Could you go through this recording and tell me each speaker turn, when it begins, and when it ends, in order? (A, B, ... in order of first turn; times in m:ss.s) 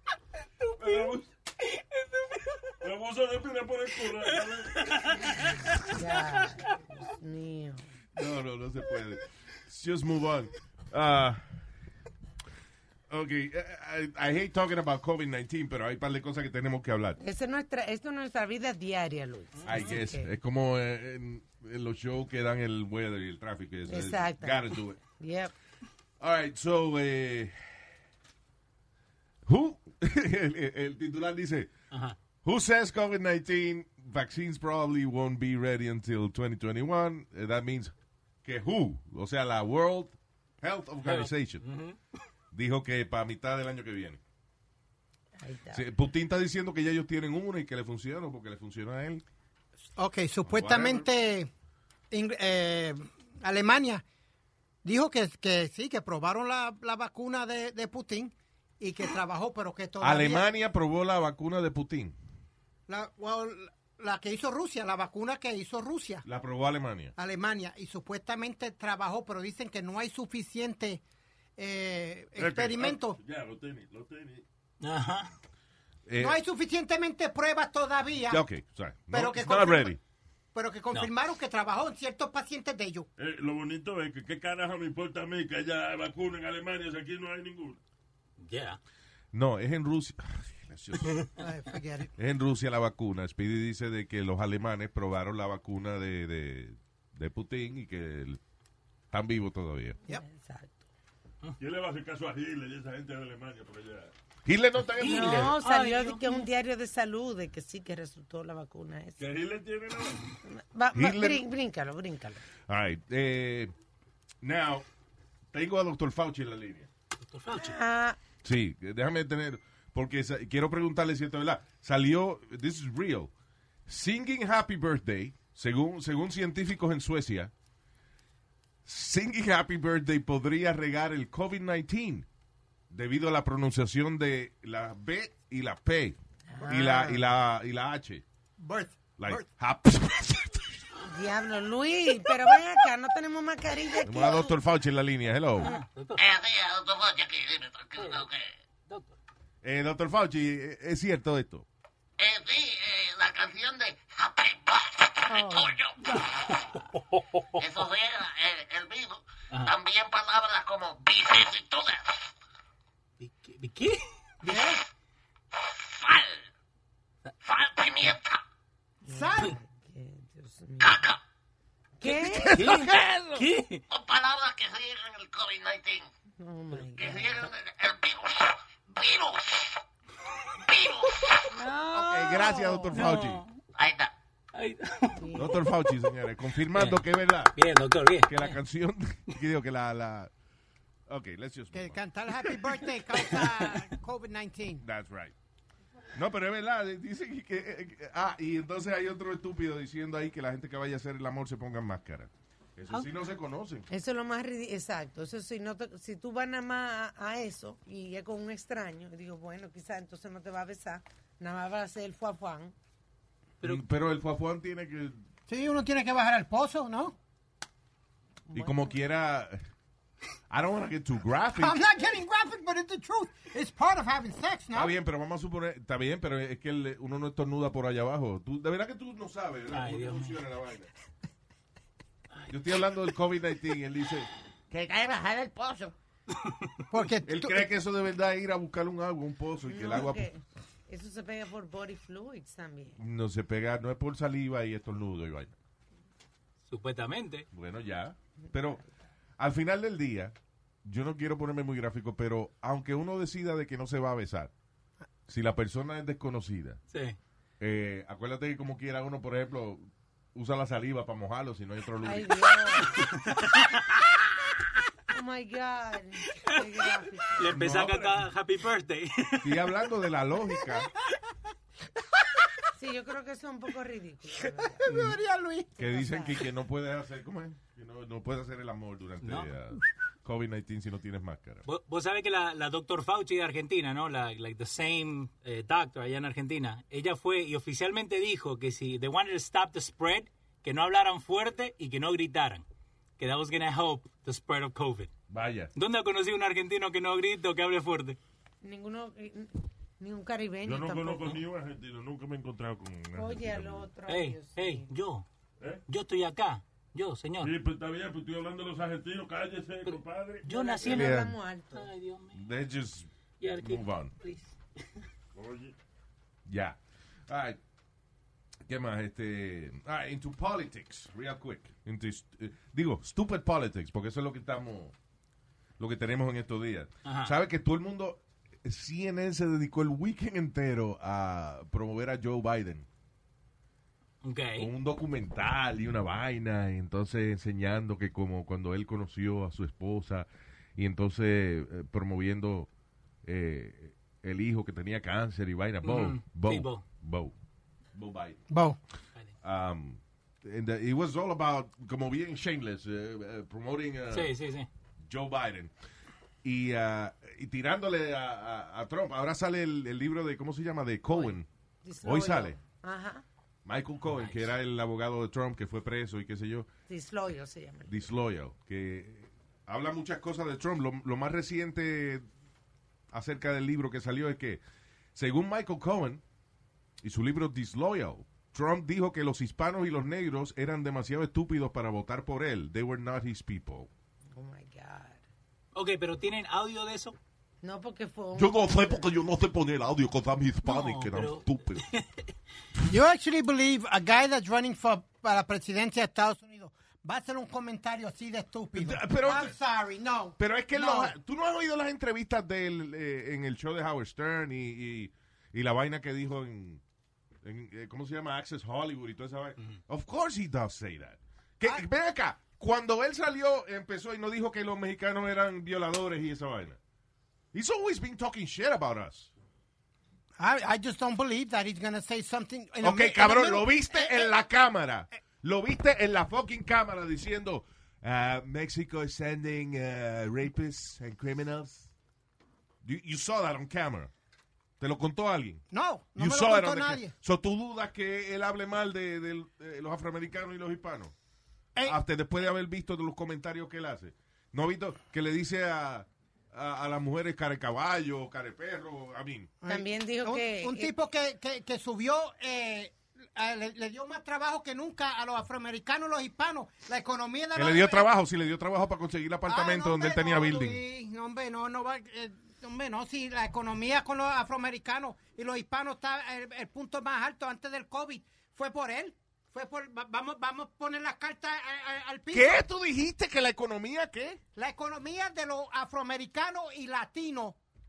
0:00.8-0:01.2 A
0:01.8-0:02.6 B
0:02.8-0:04.9 A
0:04.7-0:05.8 B
0:05.9-0:07.9 C
0:08.2-0:11.6 D
0:13.1-0:17.2 D
0:17.2-0:20.3 C
0:19.6-0:25.0 D
0:23.9-0:25.5 C
0:26.2-0:27.6 D
0:29.4-0:31.7 D
0:31.9-0:32.2 B
0:32.4-0:37.9 D
0:38.4-0:41.6 D
0:41.0-0:42.0 B
0:42.5-0:44.2 D
0:45.4-0:45.9 C
0:45.7-0:49.2 D
0:50.0-0:51.5 E
0:50.4-0:51.1 D
0:52.1-0:54.0 E
0:54.8-1:00.5 E
1:00.0-1:02.2 D
1:02.9-1:06.2 E
1:06.2-1:07.1 D
1:07.2-1:11.0 E
1:11.6-1:13.2 E
1:12.4-1:14.4 A
1:14.8-1:15.3 B
1:16.0-1:16.4 D
1:16.2-1:18.4 E
1:18.3-1:20.0 D
1:19.1-1:20.0 E
1:20.5-1:23.1 E
1:23.2-1:27.8 A
1:28.4-1:28.8 B
1:29.3-1:31.2 D
1:31.4-1:32.1 E
1:32.2-1:38.4 D
1:39.1-1:40.0 D
1:40.1-1:40.8 C
1:41.6-1:44.1 A
1:44.4-1:45.5 D
1:45.0-1:46.5 B
1:45.0-1:49.2 C
1:49.2-1:50.2 A
1:50.5-1:52.4 C
1:50.9-1:51.4 D
1:52.7-1:53.7 D
1:54.4-1:54.8 D
1:55.5-1:56.9 D
1:57.2-1:57.8 B
1:57.5-1:58.2 C
1:58.4-2:03.3 D
2:03.9-2:07.5 D
2:08.8-2:12.3 D
2:12.9-2:18.2 D
2:16.5-2:17.2 C
2:16.6-2:17.0 E
2:18.6-2:19.5 E
2:19.2-2:20.6 D
2:21.0-2:24.6 C
2:24.0-2:25.7 D
2:25.6-2:26.2 B
2:26.2-2:28.5 F
2:28.0-2:28.2 B
2:28.9-2:29.1 B
2:29.6-2:31.6 D
2:32.2-2:36.7 F
2:35.3-2:35.7 C
2:36.7-2:37.6 B
2:37.6-2:42.3 F
2:43.2-2:44.5 B
2:44.4-2:44.8 E
2:45.5-2:46.4 F
2:47.4-2:48.4 F
2:49.0-2:51.0 C
2:49.0-2:49.6 E
2:50.8-2:51.2 F
2:52.0-2:52.6 C
2:52.3-2:53.4 D
2:52.5-2:53.8 B
2:53.9-2:56.1 F
2:56.4-2:57.5 C
2:57.0-2:59.8 F
3:00.6-3:01.5 F
3:01.5-3:03.6 B
3:01.9-3:03.4 D
3:02.4-3:02.9 C
3:03.8-3:04.1 F
3:04.5-3:05.9 B
3:05.2-3:05.6 C
3:05.3-3:07.5 D
3:06.7-3:07.0 B
3:07.6-3:08.6 B
3:08.2-3:10.3 D
3:11.1-3:12.0 D
3:11.7-3:14.8 E
3:13.2-3:13.8 B
3:14.8-3:15.3 D
3:16.1-3:23.9 D
3:23.9-3:32.7 C
3:33.6-3:35.2 D
3:35.5-3:37.2 E
3:38.5-3:38.9 C
3:38.5-3:39.6 D
3:40.5-3:41.8 D
3:41.6-3:44.9 E
3:44.7-3:50.9 D
3:49.7-3:50.4 B
3:52.5-3:54.3 D
3:54.7-3:55.6 F
3:56.9-3:57.6 E
3:57.3-4:00.3 D
3:59.7-4:03.0 C
4:03.0-4:05.6 D
4:06.7-4:07.5 B
4:07.5-4:08.8 D
4:08.4-4:08.8 C
4:09.4-4:14.5 D
4:15.3-4:16.8 D
4:16.9-4:17.2 B
4:17.6-4:22.6 D
4:22.0-4:23.0 C
4:23.0-4:23.8 B
4:25.1-4:27.5 C
4:27.3-4:29.7 B
4:27.5-4:28.0 D
4:27.6-4:28.1 A
4:29.4-4:30.9 D
4:32.7-4:34.9 C
4:34.8-4:35.8 E
4:35.8-4:41.6 D
4:35.8-4:36.4 C
4:39.2-4:39.5 B
4:41.6-4:52.6 B
4:53.2-4:55.1 B
4:55.3-4:55.7 D
4:55.7-4:58.2 B
4:58.6-5:01.4 C
5:00.6-5:03.1 A
5:03.1-5:03.8 D
5:03.1-5:04.9 C
5:04.1-5:05.2 B
5:05.9-5:07.5 B
5:07.4-5:10.5 A
5:09.8-5:11.2 B
5:10.5-5:11.9 C
5:10.8-5:11.3 D
5:11.7-5:12.4 B
5:12.3-5:14.1 D
5:13.4-5:14.5 B
5:15.3-5:15.7 A
5:16.4-5:17.6 D
5:18.7-5:24.9 D
5:25.8-5:32.9 D
5:27.0-5:27.3 B
5:34.2-5:34.7 B
5:34.6-5:42.7 D
5:43.2-5:47.3 D
5:45.8-5:46.8 B
5:47.9-5:48.4 D
5:48.5-5:48.8 E
5:49.4-5:54.3 D
5:54.1-5:54.7 B
5:55.0-5:55.7 D
5:56.4-6:01.5 D
6:01.1-6:03.2 C
6:02.0-6:02.6 D
6:03.6-6:06.7 D
6:04.1-6:04.5 B
6:06.9-6:08.1 C
6:07.9-6:12.3 D
6:13.1-6:14.6 D
6:15.1-6:16.2 D
6:17.0-6:23.9 D
6:24.3-6:25.2 C
6:25.7-6:27.2 B
6:27.6-6:29.0 C
6:28.3-6:31.8 D
6:30.6-6:32.2 B
6:32.8-6:41.1 E
6:38.7-6:39.5 D
6:40.4-6:46.8 D
6:47.4-6:56.8 D
6:57.5-6:59.3 D
7:00.4-7:04.3 E
7:02.8-7:11.9 D
7:12.8-7:14.1 D
7:14.8-7:15.6 D
7:15.7-7:17.1 E
7:16.2-7:21.1 D
7:21.8-7:29.5 D
7:29.6-7:38.1 E
7:29.7-7:30.9 C
7:37.5-7:40.8 D
7:39.5-7:52.6 E
7:52.3-7:54.4 D
7:54.5-7:57.6 E